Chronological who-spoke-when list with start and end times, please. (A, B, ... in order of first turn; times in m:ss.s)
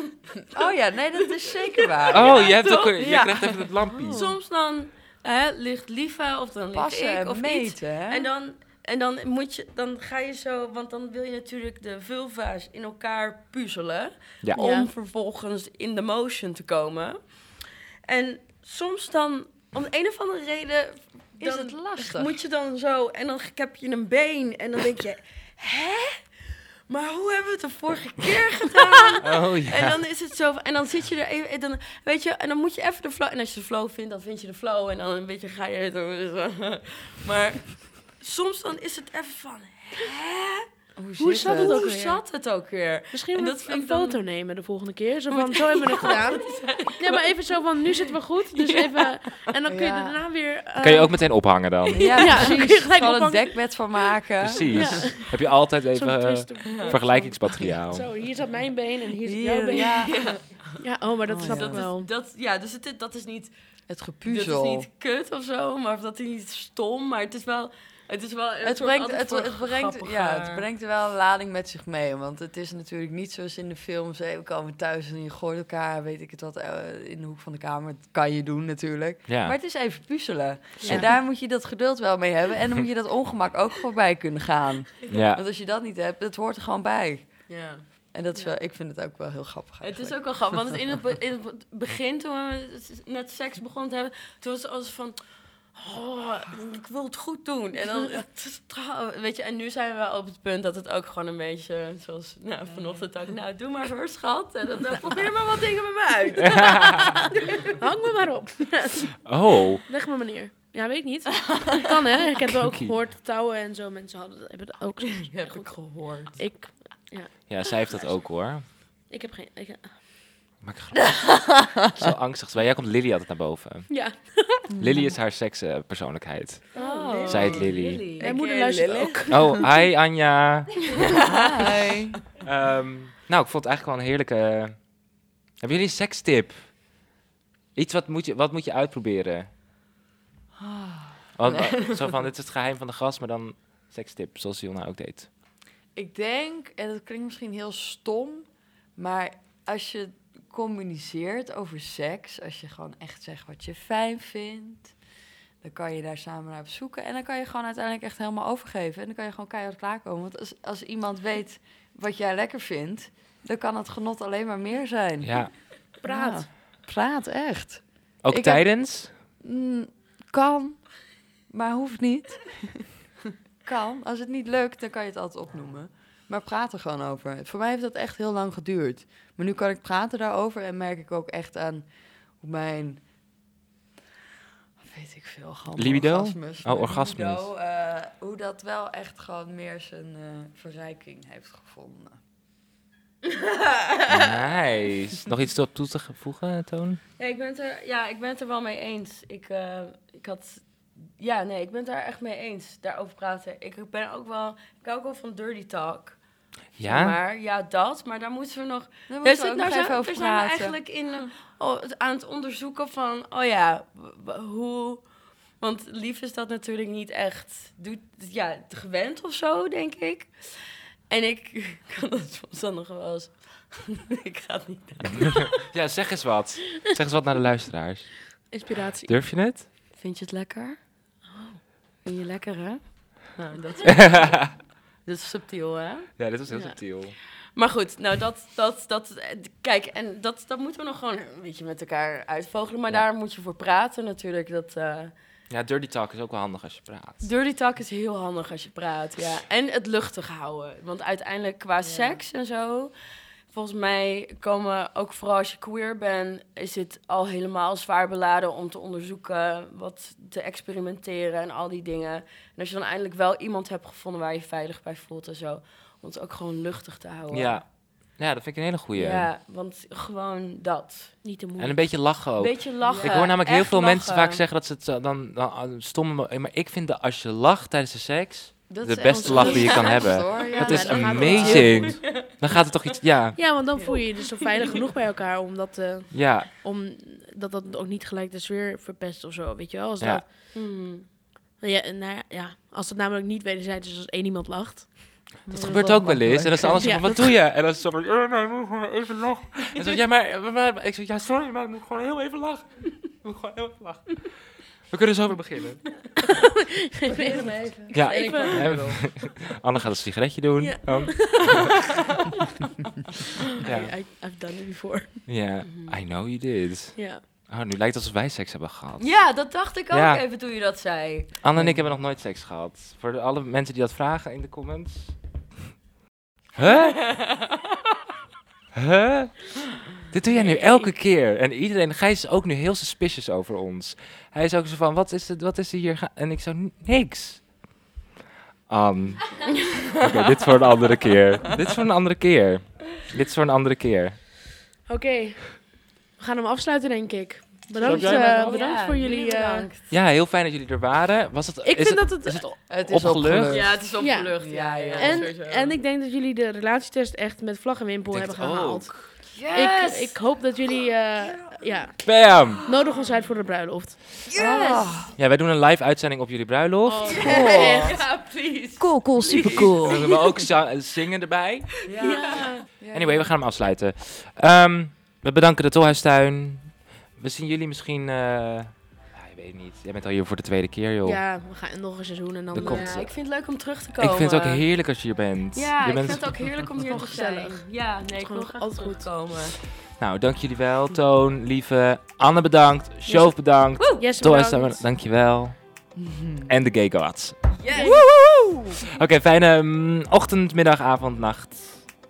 0:00.5-0:02.6 A
0:01.2-0:40.7 B
0:02.1-0:04.3 C
0:06.7-0:08.3 A
0:14.6-0:14.9 D
0:21.4-0:22.4 A
0:29.2-0:30.0 C
0:41.0-0:41.8 A
0:41.2-0:42.2 D
0:41.4-0:44.2 B
0:43.1-0:51.5 D
0:45.3-0:49.5 B
0:49.7-0:50.2 A
0:50.8-0:52.4 C
0:51.9-0:55.2 A
0:52.0-0:52.6 B
0:52.2-0:53.8 D
0:54.4-0:58.1 C
0:54.7-1:02.1 D
0:59.1-1:00.7 A
0:59.7-1:00.8 B
1:01.2-1:01.9 A
1:01.4-1:03.5 B
1:03.9-1:04.9 A
1:04.2-1:10.6 B
1:08.6-1:30.7 A
1:19.3-1:19.6 C
1:20.8-1:21.1 D
1:25.1-1:25.4 C
1:27.5-1:27.8 B
1:29.8-1:47.6 B
1:47.8-1:49.3 D
1:49.2-1:49.8 C
1:49.8-1:57.9 D
1:51.5-1:51.7 B
1:52.6-1:52.9 C
1:55.2-1:56.6 B
1:57.5-1:58.7 C
1:59.1-2:00.0 D
2:00.6-2:03.9 C
2:03.9-2:04.7 D
2:04.7-2:05.1 A
2:04.8-2:06.7 C
2:06.7-2:09.2 B
2:06.7-2:09.7 D
2:07.3-2:08.0 C
2:07.3-2:09.5 A
2:09.3-2:11.0 C
2:11.4-2:12.1 A
2:12.4-2:17.0 C
2:17.7-2:19.5 C
2:20.6-2:21.7 A
2:21.4-2:25.3 C
2:25.9-2:35.0 A
2:35.6-2:53.0 A
2:45.2-2:45.5 C
2:46.0-2:46.5 D
2:48.2-2:49.1 C
2:53.6-3:03.3 A
3:04.8-3:12.2 A
3:05.8-3:07.5 C
3:13.4-3:14.4 B
3:14.1-3:17.0 C
3:17.2-3:45.6 B
3:26.8-3:27.2 C
3:29.1-3:30.8 A
3:45.5-3:49.7 C
3:48.4-3:49.4 D
3:50.0-3:50.9 B
3:51.2-3:51.6 D
3:52.0-3:56.2 B
3:53.9-3:54.5 C
3:56.2-3:57.2 C
3:56.5-3:56.8 D
3:57.4-4:05.1 B
4:05.5-4:07.3 C
4:07.2-4:27.6 B
4:11.8-4:12.2 A
4:27.3-4:29.3 C
4:28.9-4:31.2 B
4:31.2-4:32.0 D
4:31.6-4:43.4 C
4:32.4-4:34.4 B
4:32.8-4:33.2 A
4:38.7-4:41.9 A
4:39.1-4:42.0 D
4:39.2-4:42.6 B
4:43.3-4:50.5 D
4:43.7-4:44.8 B
4:46.1-4:46.5 C
4:50.5-4:51.1 B
4:51.6-4:56.1 D
4:55.4-4:57.3 A
4:55.5-5:06.1 C
5:07.0-5:08.9 D
5:07.1-5:09.0 A
5:07.1-5:08.9 B
5:07.9-5:11.7 C
5:10.6-5:11.6 D
5:13.6-5:14.0 C
5:13.6-5:15.2 D
5:15.2-5:20.2 C
5:15.6-5:16.0 B
5:16.9-5:17.2 D
5:19.0-5:21.4 B
5:21.4-5:25.3 C
5:21.5-5:21.8 A
5:26.5-5:27.2 C
5:26.7-5:27.5 B
5:28.8-5:37.7 C
5:30.3-5:30.9 B
5:38.7-5:44.2 C
5:44.9-5:49.7 D
5:47.8-5:49.9 B
5:47.8-5:48.6 C
5:49.9-5:53.8 C
5:51.6-5:52.6 D
5:52.7-5:55.3 A
5:53.5-5:55.8 B
5:54.0-6:04.0 D
5:58.1-5:59.1 C
5:59.3-6:03.3 B
6:02.0-6:02.6 C
6:04.2-6:05.1 B
6:04.3-6:05.2 A
6:05.2-6:07.3 C
6:06.8-6:08.0 D
6:07.0-6:10.5 B
6:07.2-6:08.2 A
6:08.8-6:10.1 A
6:09.4-6:11.9 C
6:11.8-6:12.6 B
6:11.9-6:13.4 A
6:12.0-6:12.6 D
6:12.9-6:21.2 C
6:21.0-6:23.0 D
6:22.5-6:23.4 C
6:22.6-6:24.7 B
6:24.0-6:26.6 C
6:25.5-6:29.6 B
6:26.8-6:29.1 D
6:29.9-6:41.9 C
6:33.1-6:34.9 D
6:33.8-6:34.0 B
6:36.0-6:36.5 A
6:37.6-6:38.1 B
6:37.7-6:38.1 D